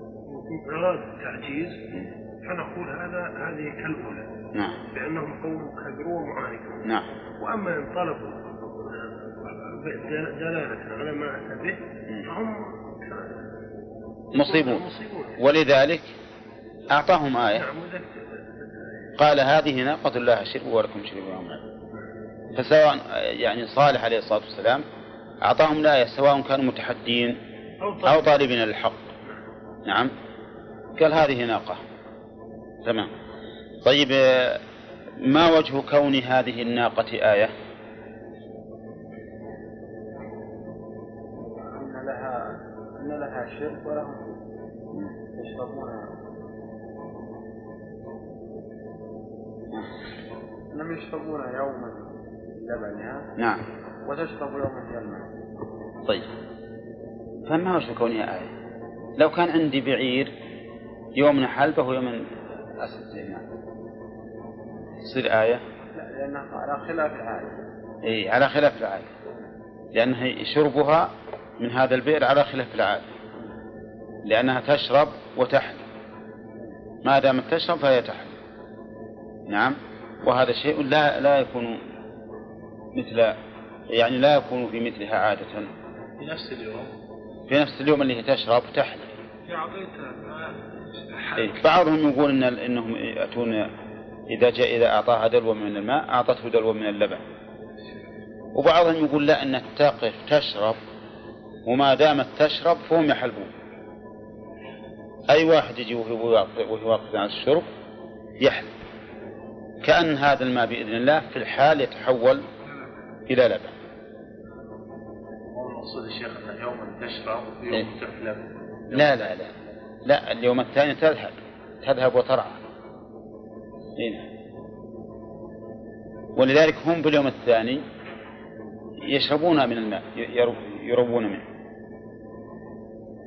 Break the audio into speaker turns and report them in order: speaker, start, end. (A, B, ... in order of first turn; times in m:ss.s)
0:00.3-0:01.8 A
0:02.4-0:04.3 A
0:04.9-0:06.8 A
0:07.4-0:08.6 A
0:09.4-0:13.3 A
0:14.3-0:14.9 B
0:14.3-0:15.4 A
0:15.4-0:16.1 B
0:16.9-0:17.6 B
0:17.5-0:18.3 A
0:19.2-0:21.6 B
0:22.5-0:24.8 B
0:25.4-0:27.4 B
0:27.8-0:28.4 A
0:28.0-0:29.0 B
0:29.9-0:30.1 B
0:31.0-0:31.8 B
0:32.8-0:33.1 B
0:33.8-0:34.6 B
0:35.2-0:37.5 B
0:41.6-0:44.4 C
0:45.3-0:46.1 C
0:50.7-0:53.3 C
0:53.4-0:53.6 B
0:54.0-0:55.3 C
0:57.5-0:58.5 B
0:59.2-1:00.3 B
1:01.2-1:02.3 B
1:02.8-1:03.4 B
1:05.0-1:05.6 B
1:05.9-1:07.6 C
1:08.0-1:09.1 B
1:09.9-1:13.1 B
1:14.2-1:15.8 B
1:17.0-1:18.4 B
1:19.5-1:21.8 B
1:23.0-1:23.4 B
1:23.9-1:25.7 B
1:26.2-1:26.9 D
1:27.5-1:29.1 B
1:29.4-1:31.6 E
1:31.4-1:33.7 B
1:34.3-1:37.2 B
1:38.5-1:40.8 B
1:41.7-1:43.5 B
1:45.3-1:47.7 B
1:48.4-1:48.7 B
1:49.8-1:52.4 B
1:53.3-1:53.8 B
1:55.5-1:59.4 D
1:58.9-1:59.5 B
2:00.0-2:02.6 B
2:04.0-2:04.2 B
2:06.4-2:07.8 B
2:09.0-2:11.4 B